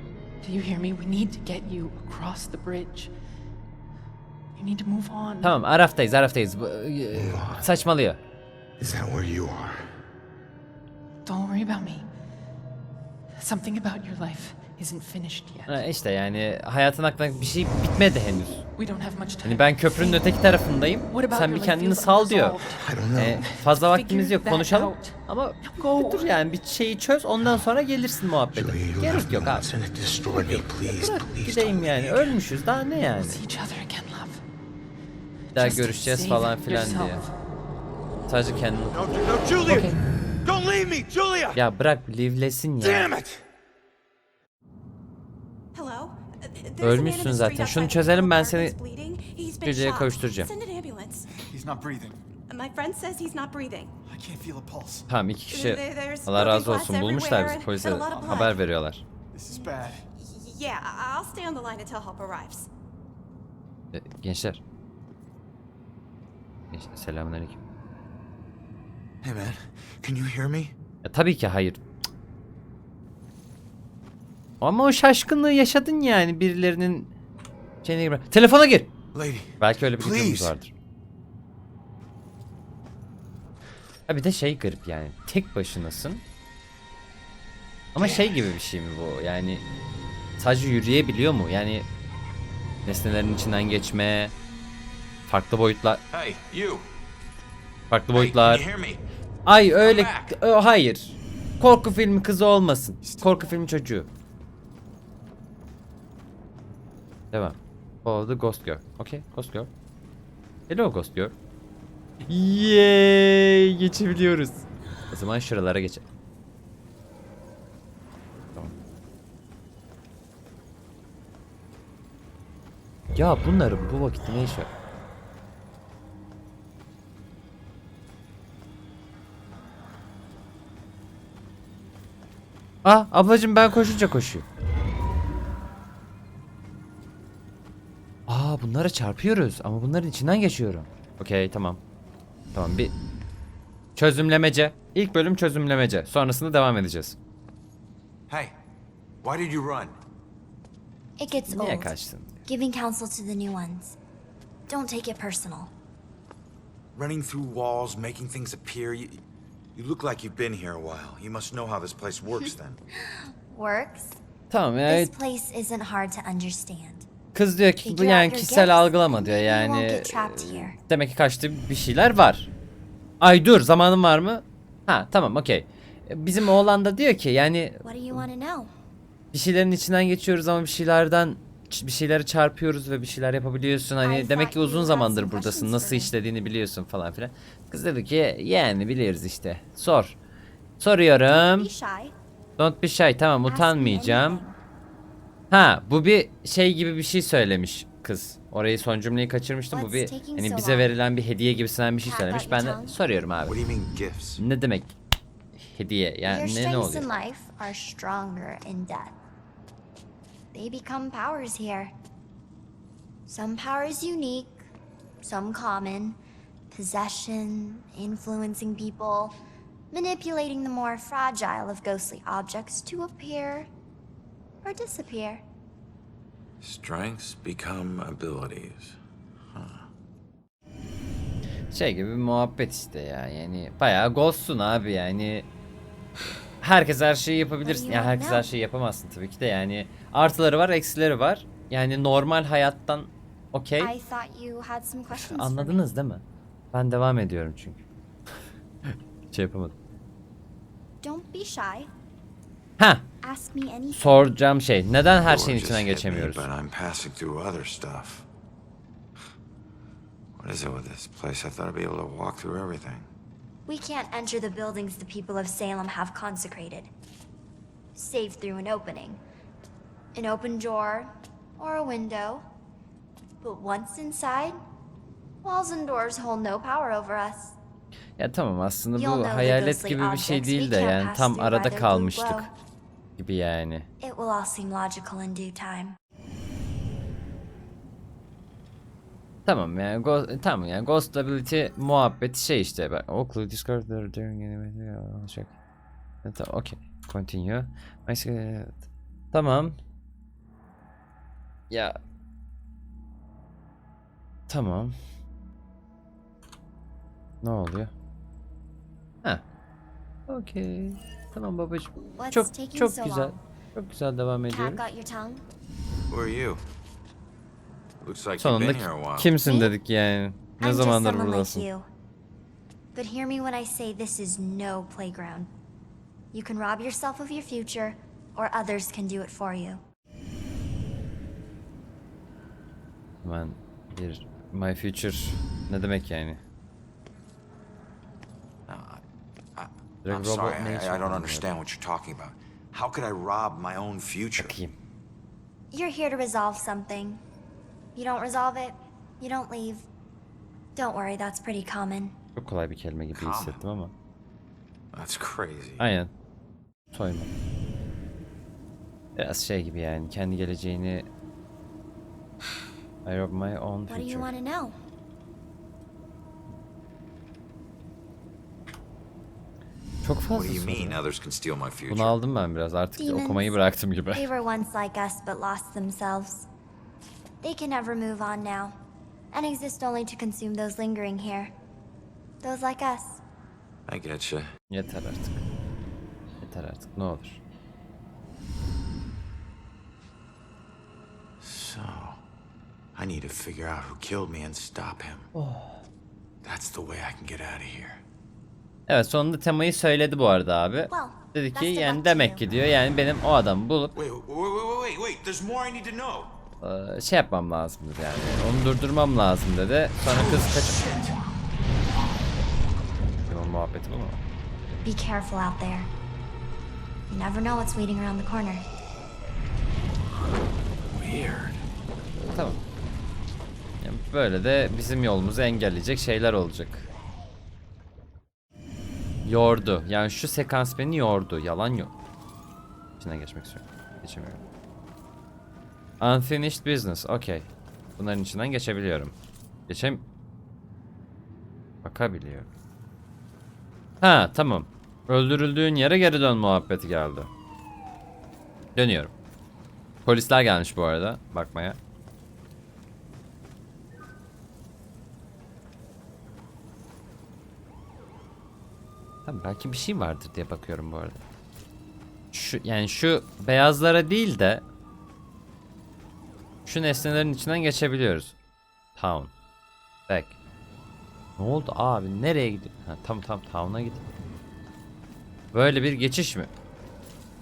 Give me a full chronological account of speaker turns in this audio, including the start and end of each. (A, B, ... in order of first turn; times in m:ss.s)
0:00.4-0:03.1 A
0:04.6-0:05.6 A
0:05.4-0:08.2 B
0:07.1-0:07.7 C
0:08.8-0:09.9 C
0:11.2-0:12.1 A
0:13.4-0:15.8 A
0:15.7-0:18.6 B
0:18.8-0:20.3 A
0:19.4-0:22.6 B
0:21.1-0:22.8 A
0:22.8-0:23.5 C
0:23.2-0:29.7 B
0:23.4-0:26.3 A
0:28.5-0:32.4 C
0:30.4-0:33.4 B
0:32.9-0:34.4 A
0:35.5-0:37.2 B
0:35.5-0:37.3 A
0:38.3-0:39.0 B
0:38.9-0:41.6 C
0:39.6-0:39.9 B
0:39.7-0:40.0 A
0:41.5-0:43.1 B
0:42.8-0:43.4 C
0:45.7-0:51.2 D
0:46.8-0:48.7 B
0:49.6-0:50.5 B
0:51.4-0:52.2 E
0:52.5-0:53.9 D
0:54.1-0:55.0 E
0:55.1-0:59.0 B
0:55.5-0:58.6 D
0:58.1-0:58.5 E
0:59.3-1:00.0 E
0:59.5-1:02.7 D
1:03.9-1:04.6 B
1:06.7-1:07.6 B
1:09.2-1:10.7 C
1:11.0-1:11.8 B
1:14.6-1:17.1 B
1:17.8-1:18.9 B
1:19.1-1:20.6 C
1:19.6-1:20.7 B
1:24.1-1:26.2 B
1:27.9-1:29.6 B
1:27.9-1:28.5 C
1:30.4-1:31.8 B
1:32.8-1:34.3 B
1:35.3-1:36.0 B
1:36.1-1:36.9 C
1:37.9-1:38.6 B
1:38.1-1:39.0 C
1:39.4-1:44.1 B
1:39.8-1:40.4 C
1:43.0-1:43.5 C
1:47.3-1:49.7 B
1:50.7-1:51.3 B
1:52.3-1:56.0 B
2:03.1-2:04.7 B
2:12.8-2:14.4 B
2:18.3-2:21.8 B
2:22.5-2:22.9 B
2:24.0-2:27.2 B
2:28.3-2:28.5 C
2:29.2-2:30.0 C
2:31.2-2:31.9 F
2:31.5-2:32.4 B
2:32.4-2:34.0 F
2:34.7-2:35.7 F
2:36.9-2:39.2 C
2:39.7-2:42.8 C
2:43.0-2:44.2 F
2:44.5-2:45.1 B
2:44.8-2:47.0 F
2:47.3-2:52.5 B
2:47.8-2:50.8 F
2:53.2-2:58.2 B
2:57.8-2:58.7 F
2:59.3-3:10.2 B
3:04.0-3:06.1 F
3:10.8-3:11.7 B
3:11.2-3:12.1 F
3:12.6-3:14.4 B
3:13.5-3:14.6 F
3:15.5-3:23.6 B
3:19.7-3:20.9 F
3:22.0-3:23.0 F
3:23.4-3:24.4 C
3:24.4-3:24.9 B
3:25.6-3:27.1 B
3:26.2-3:29.1 F
3:30.5-3:31.9 F
3:33.3-3:34.6 F
3:35.2-3:36.2 F
3:36.7-3:39.4 F
3:39.9-3:43.7 F
3:44.6-3:45.4 F
3:46.6-3:49.0 C
3:49.5-3:49.9 C
3:51.7-3:55.5 B
3:56.6-4:03.9 B
3:57.6-3:58.5 F
4:03.8-4:05.9 F
4:05.1-4:07.8 B
4:08.9-4:09.7 B
4:11.0-4:11.9 F
4:12.8-4:13.0 B
4:13.2-4:14.3 F
4:13.9-4:16.5 B
4:15.2-4:18.3 C
4:20.4-4:23.1 C
4:23.6-4:26.9 F
4:28.0-4:29.2 F
4:30.1-4:32.4 F
4:33.4-4:34.6 F
4:35.4-4:37.6 F
4:38.2-4:42.5 B
4:39.0-4:42.5 F
4:43.2-4:43.9 B
4:44.0-4:46.0 F
4:49.4-4:55.5 B
4:56.2-4:59.8 B
5:01.7-5:02.0 B
5:04.5-5:04.9 B
5:07.4-5:07.9 B
5:10.3-5:14.8 B
5:12.0-5:13.4 F
5:14.5-5:15.4 F
5:16.1-5:16.6 C
5:18.0-5:19.3 C
5:18.4-5:21.7 B
5:19.4-5:19.7 F
5:20.6-5:21.9 F
5:22.9-5:25.5 F
5:26.3-5:29.8 F
5:33.2-5:36.4 B
5:38.7-5:39.0 C
5:39.6-5:44.6 C
5:40.0-5:41.5 B
5:44.4-5:44.7 B
5:45.7-5:47.2 F
5:48.0-5:49.8 F
5:50.8-5:52.2 F
5:52.4-5:53.9 B
5:53.1-5:53.6 C
5:54.9-5:55.8 C
5:55.8-5:56.1 B
5:56.9-5:57.3 B
5:59.2-6:01.1 B
6:03.0-6:04.3 B
6:03.9-6:04.8 F
6:10.0-6:11.0 B
6:10.3-6:12.2 C
6:11.9-6:14.3 B
6:13.0-6:13.6 F
6:14.1-6:16.5 F
6:17.4-6:18.8 F
6:19.3-6:21.5 F
6:22.4-6:23.2 F
6:23.9-6:24.5 C
6:24.7-6:25.4 B
6:26.4-6:27.4 B
6:31.4-6:32.2 C
6:32.9-6:35.3 C
6:35.3-6:35.8 B
6:36.4-6:38.0 C
6:38.9-6:43.9 B
6:40.9-6:42.4 F
6:43.9-6:46.3 C
6:46.6-6:50.8 B
6:53.3-6:54.8 B
6:54.8-6:55.9 F
6:57.1-6:58.6 F
7:01.0-7:01.6 C
7:02.2-7:02.6 B
7:03.8-7:06.8 B
7:09.2-7:11.9 B
7:13.0-7:14.4 B
7:16.0-7:19.1 B
7:19.7-7:20.0 B
7:21.8-7:22.5 B
7:24.0-7:27.3 B
7:28.8-7:29.1 B
7:30.0-7:31.8 B
7:39.2-7:41.2 B
7:42.3-7:44.6 B
7:46.6-7:48.3 B
7:49.0-7:49.3 B
7:50.1-7:50.4 B
7:51.4-7:54.0 B
7:55.5-7:56.5 B